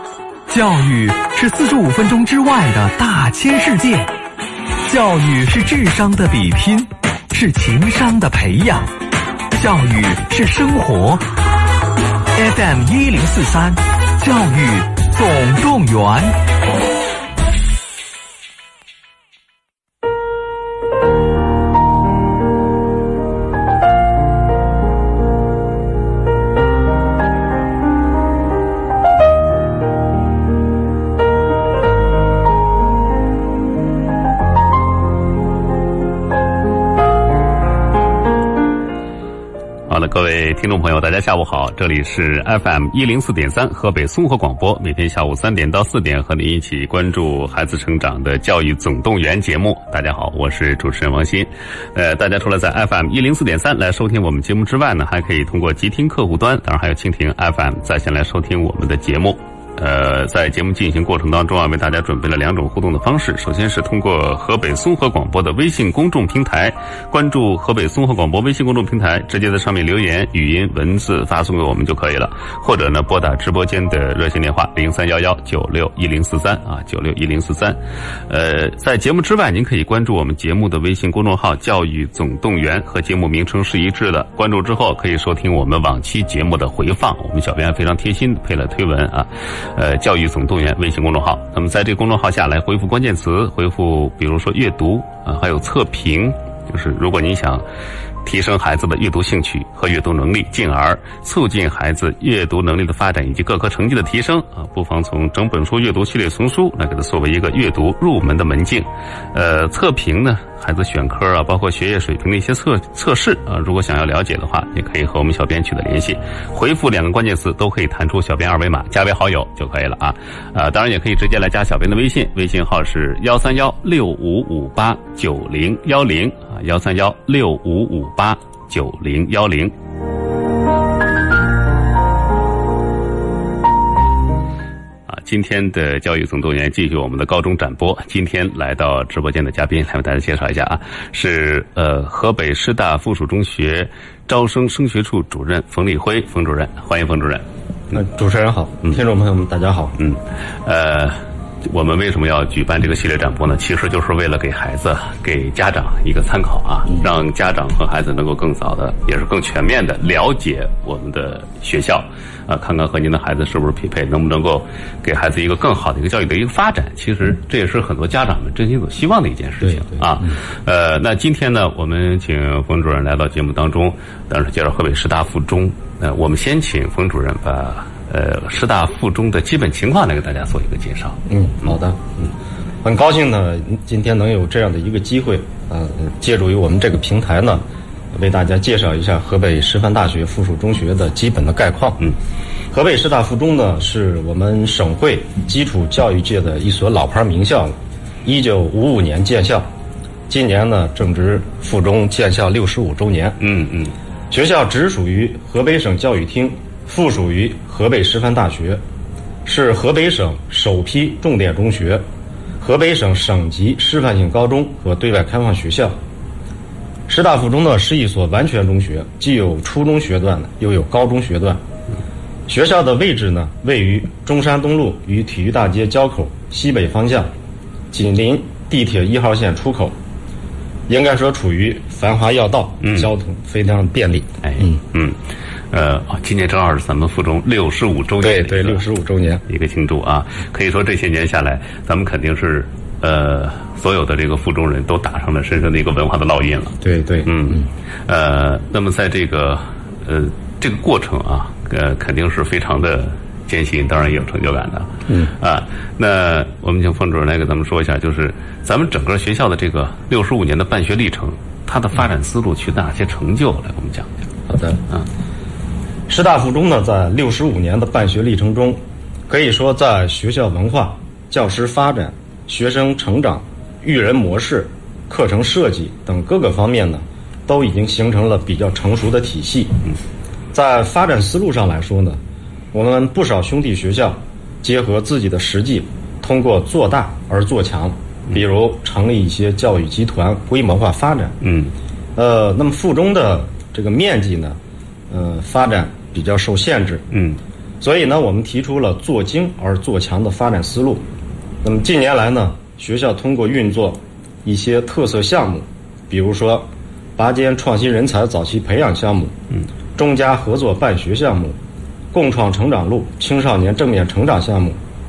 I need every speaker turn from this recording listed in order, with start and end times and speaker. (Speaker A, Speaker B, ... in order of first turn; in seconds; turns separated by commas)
Speaker A: 0.5-4.1, Speaker A: 4.8-8.9, Speaker A: 9.5-11.2, Speaker A: 12.3-16.4, Speaker B: 39.9-97.6, Speaker B: 98.2-129.7, Speaker B: 135.1-147.4, Speaker C: 147.9-150.0, Speaker B: 150.0-181.2, Speaker C: 169.6-170.4, Speaker C: 181.3-182.3, Speaker C: 182.8-192.1, Speaker C: 192.7-197.7, Speaker C: 198.2-199.7, Speaker C: 200.3-203.4, Speaker B: 203.4-203.9, Speaker C: 204.3-208.8, Speaker C: 209.5-212.0, Speaker C: 212.6-215.9, Speaker C: 217.1-221.6, Speaker C: 222.5-227.3, Speaker C: 227.9-229.9, Speaker C: 230.9-234.8, Speaker B: 232.8-233.1, Speaker B: 234.4-235.2, Speaker B: 235.7-238.8, Speaker C: 238.2-239.4, Speaker B: 239.5-264.2, Speaker C: 246.8-247.7, Speaker C: 264.5-264.8, Speaker C: 266.1-279.8, Speaker C: 280.5-282.2, Speaker C: 282.7-291.4, Speaker B: 291.4-291.7, Speaker C: 292.2-294.6, Speaker C: 295.1-297.1, Speaker B: 297.1-297.4, Speaker C: 297.8-301.0, Speaker C: 301.6-309.4, Speaker C: 310.0-311.6, Speaker C: 312.1-314.8